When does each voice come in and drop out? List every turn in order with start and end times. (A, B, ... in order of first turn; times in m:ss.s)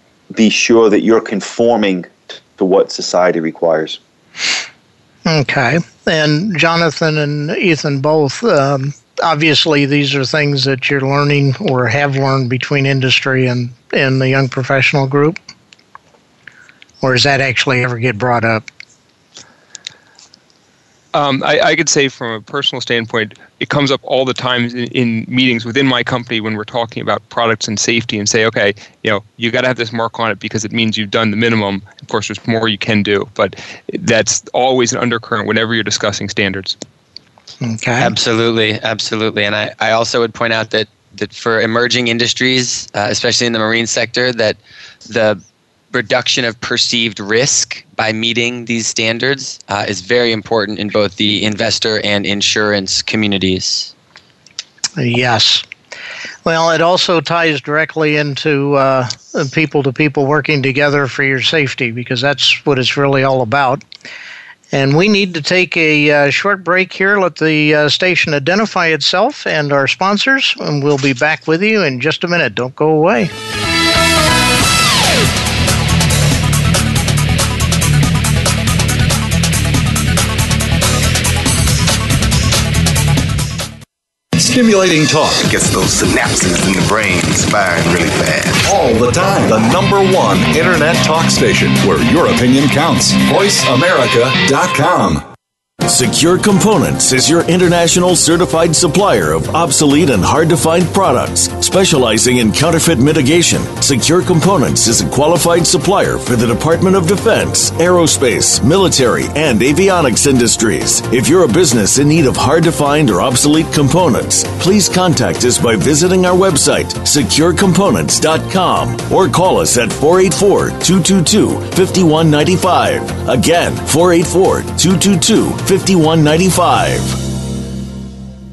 0:00.3-0:04.0 A
0:05.2-0:15.4 B
0:17.0-0:18.6 B
0:21.1-0:36.8 C
0:37.6-0:38.1 B
0:38.0-0:45.4 D
0:45.9-0:53.9 D
0:55.0-0:55.6 B
0:56.4-1:03.8 B
1:04.7-1:13.3 B
1:24.4-1:25.4 E
1:25.4-1:28.7 F
1:28.6-1:35.2 E
1:35.8-2:07.2 G